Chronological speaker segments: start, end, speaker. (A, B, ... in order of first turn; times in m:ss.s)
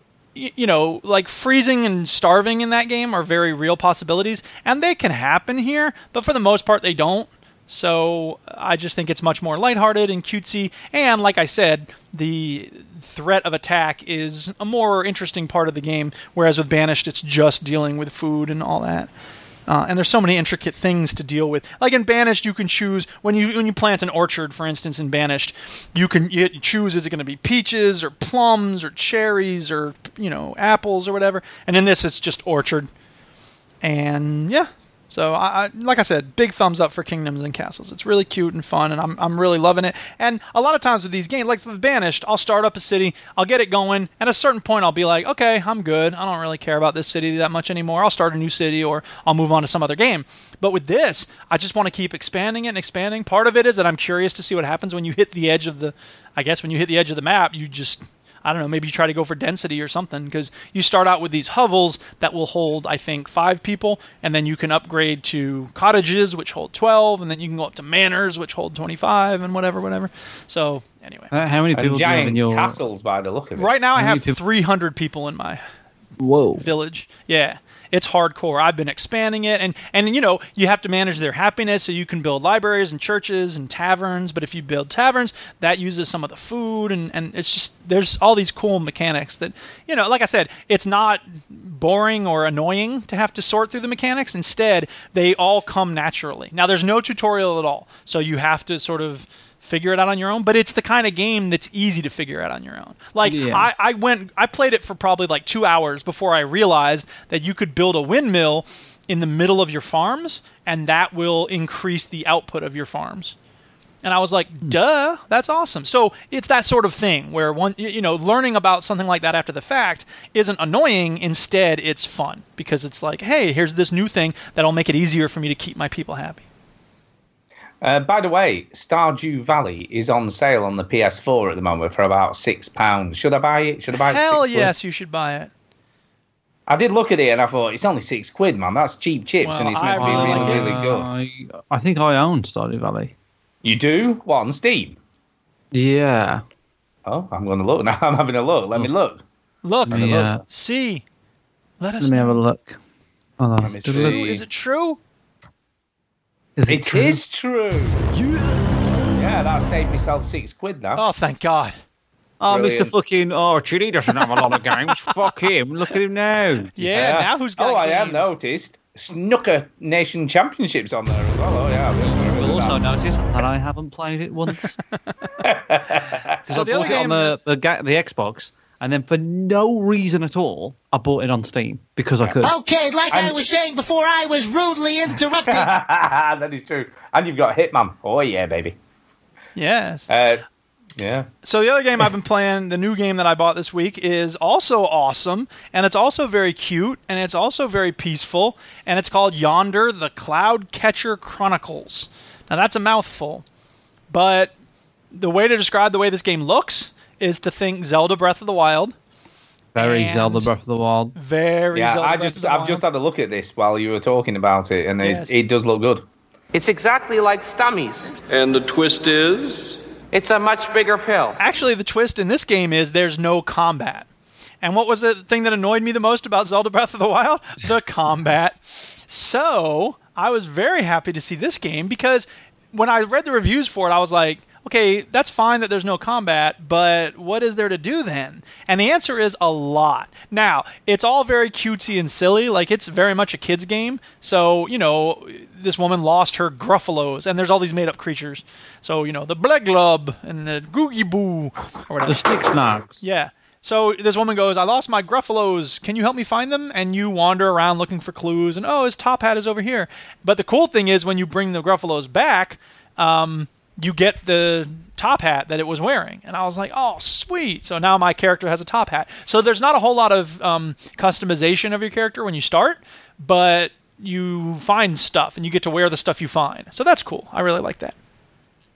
0:00.4-0:19.1 A
0:19.7-0:32.9 A
0:33.8-1:11.3 A
1:11.3-1:12.8 B
1:11.8-1:13.7 C
1:13.6-1:15.6 A
1:14.0-1:14.4 B
1:16.2-1:16.7 B
1:16.6-1:53.4 A
1:43.2-1:43.7 B
1:54.0-2:06.4 A
2:07.8-2:14.7 C
2:13.9-2:15.5 A
2:16.7-2:21.1 C
2:19.4-2:20.8 A
2:19.9-2:23.1 B
2:23.6-2:25.0 C
2:25.7-2:26.4 B
2:27.1-2:29.2 C
2:29.6-2:31.0 A
2:29.9-2:30.4 B
2:29.9-2:30.4 C
2:31.8-2:32.4 A
2:32.0-2:32.8 B
2:33.4-2:34.2 B
2:33.6-2:34.4 C
2:33.9-2:35.0 A
2:36.6-2:37.2 B
2:36.7-2:38.0 C
2:38.1-2:39.0 B
2:39.1-2:41.1 C
2:41.0-2:41.8 A
2:42.4-2:46.9 B
2:42.5-2:42.9 C
2:46.8-2:48.3 A
2:46.9-2:52.8 C
2:52.3-2:54.8 B
2:55.4-2:57.0 C
2:56.5-2:57.4 A
2:56.5-3:02.5 B
3:02.4-3:05.7 D
3:03.1-3:03.4 C
3:05.3-3:08.8 C
3:09.6-3:10.1 A
3:10.1-3:10.4 C
3:11.0-3:11.3 C
3:11.4-3:23.4 A
3:24.1-3:24.5 A
3:25.1-3:29.0 A
3:29.8-3:30.5 A
3:29.8-3:31.1 B
3:31.2-3:32.8 A
3:31.8-3:36.0 C
3:35.0-3:35.4 A
3:36.5-3:38.5 E
3:39.6-3:41.4 E
3:41.4-3:44.1 A
3:44.6-4:12.4 A
4:12.0-4:13.1 B
4:13.0-4:38.0 A